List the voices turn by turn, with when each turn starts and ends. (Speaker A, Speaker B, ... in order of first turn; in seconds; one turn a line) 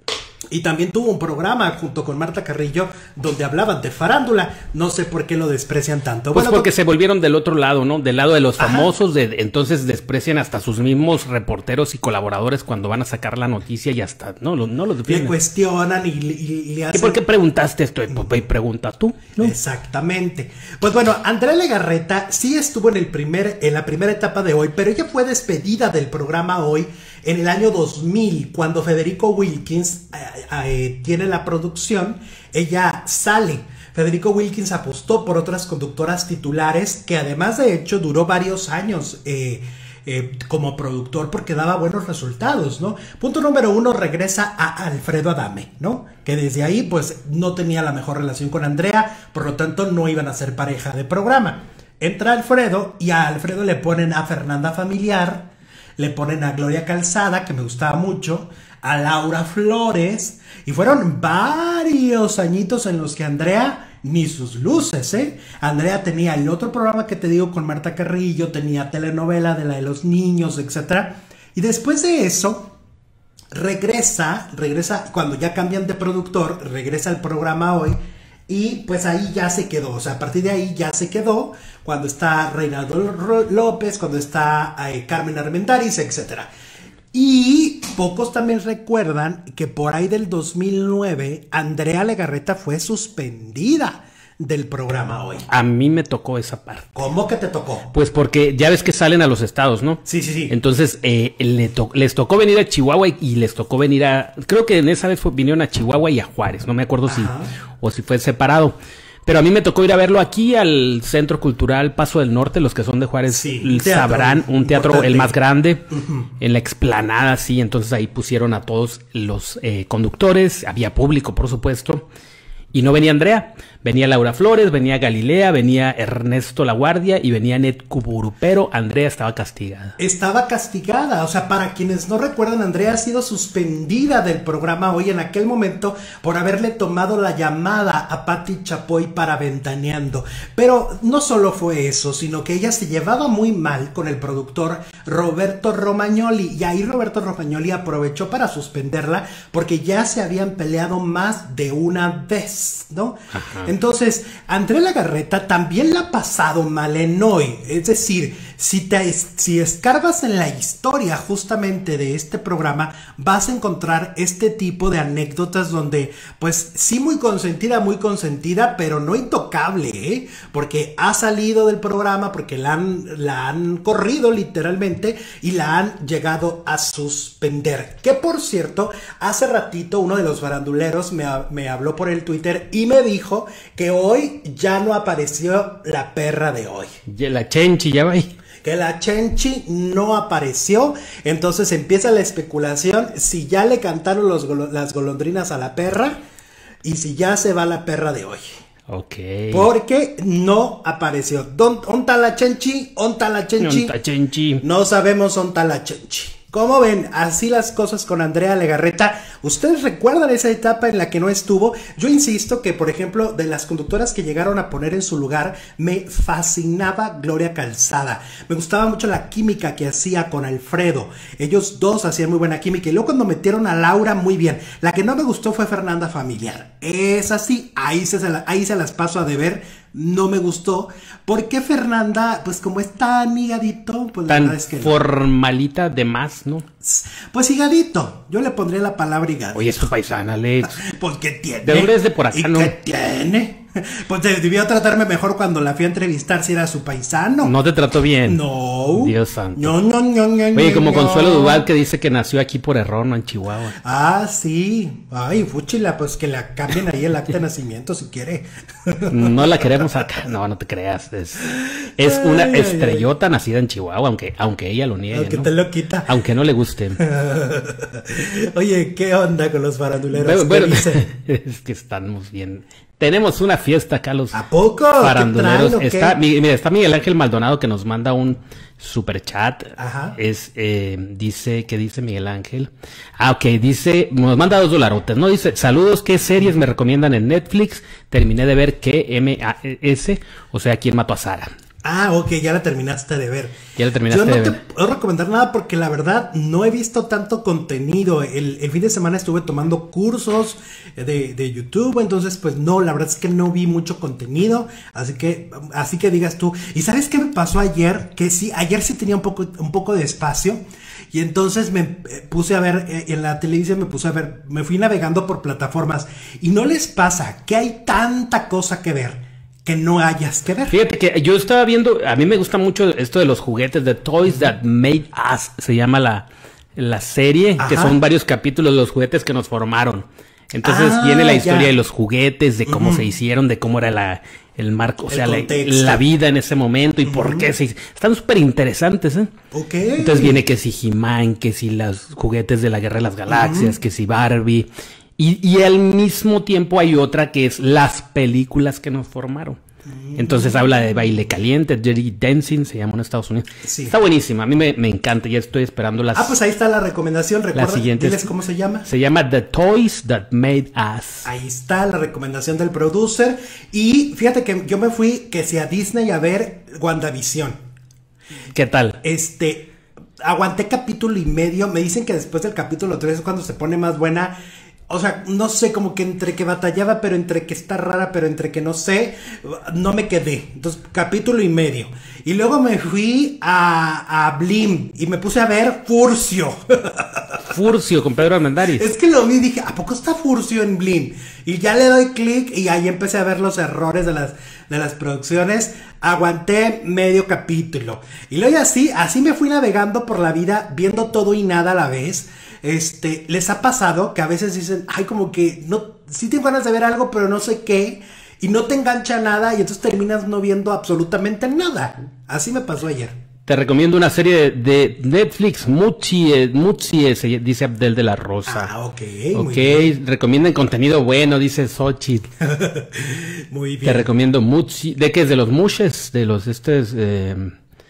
Speaker A: 0.5-6.7
Speaker B: 6.3-15.3
Speaker A: 8.6-8.9
Speaker A: 15.1-17.2
Speaker B: 16.9-19.5
Speaker A: 18.1-18.4
Speaker A: 19.4-72.7
Speaker A: 73.5-78.0
Speaker A: 78.5-86.5
Speaker A: 87.1-95.5
Speaker B: 95.5-97.0
Speaker A: 96.9-97.9
Speaker B: 97.9-115.8
Speaker A: 100.0-100.5
Speaker A: 107.0-107.5
Speaker A: 113.3-115.3
Speaker A: 115.9-116.3
Speaker B: 116.4-122.0
Speaker B: 122.7-129.9
Speaker A: 130.0-186.9
Speaker B: 153.3-153.7
Speaker B: 187.1-188.3
Speaker A: 188.6-196.2
Speaker A: 196.8-198.5
Speaker B: 198.9-199.7
Speaker A: 199.5-203.9
Speaker B: 203.6-204.6
Speaker A: 204.6-235.0
Speaker B: 234.3-236.6
Speaker A: 236.8-239.9
Speaker B: 239.5-240.8
Speaker A: 240.6-247.5
Speaker B: 241.6-242.7
Speaker B: 247.4-248.4
Speaker A: 248.2-251.7
Speaker B: 249.0-249.7
Speaker B: 250.5-253.7
Speaker A: 253.8-260.2
Speaker B: 259.1-265.5
Speaker A: 261.4-263.1
Speaker A: 265.1-266.1
Speaker B: 266.1-267.0
Speaker A: 267.0-271.0
Speaker B: 270.1-274.4
Speaker A: 274.3-276.2
Speaker B: 275.0-291.5
Speaker A: 279.8-280.2
Speaker A: 291.8-293.6
Speaker B: 293.8-294.6
Speaker A: 294.1-320.7
Speaker B: 320.7-339.3
Speaker A: 327.6-328.0
Speaker A: 330.6-331.7
Speaker A: 332.6-333.1
Speaker A: 335.1-336.0
Speaker A: 337.0-337.5
Speaker A: 339.5-340.4
Speaker B: 340.0-349.6
Speaker A: 343.3-343.7
Speaker A: 349.9-351.3
Speaker B: 350.2-356.3
Speaker A: 353.6-353.9
Speaker A: 356.1-358.9
Speaker B: 357.5-358.3
Speaker B: 358.8-361.3
Speaker A: 361.2-367.6
Speaker B: 368.5-369.0
Speaker A: 369.0-374.3
Speaker A: 374.9-387.4
Speaker B: 387.5-388.9
Speaker A: 388.7-413.1
Speaker B: 413.5-418.7
Speaker A: 418.5-419.9
Speaker B: 419.3-422.3
Speaker A: 422.4-424.1
Speaker B: 423.8-427.5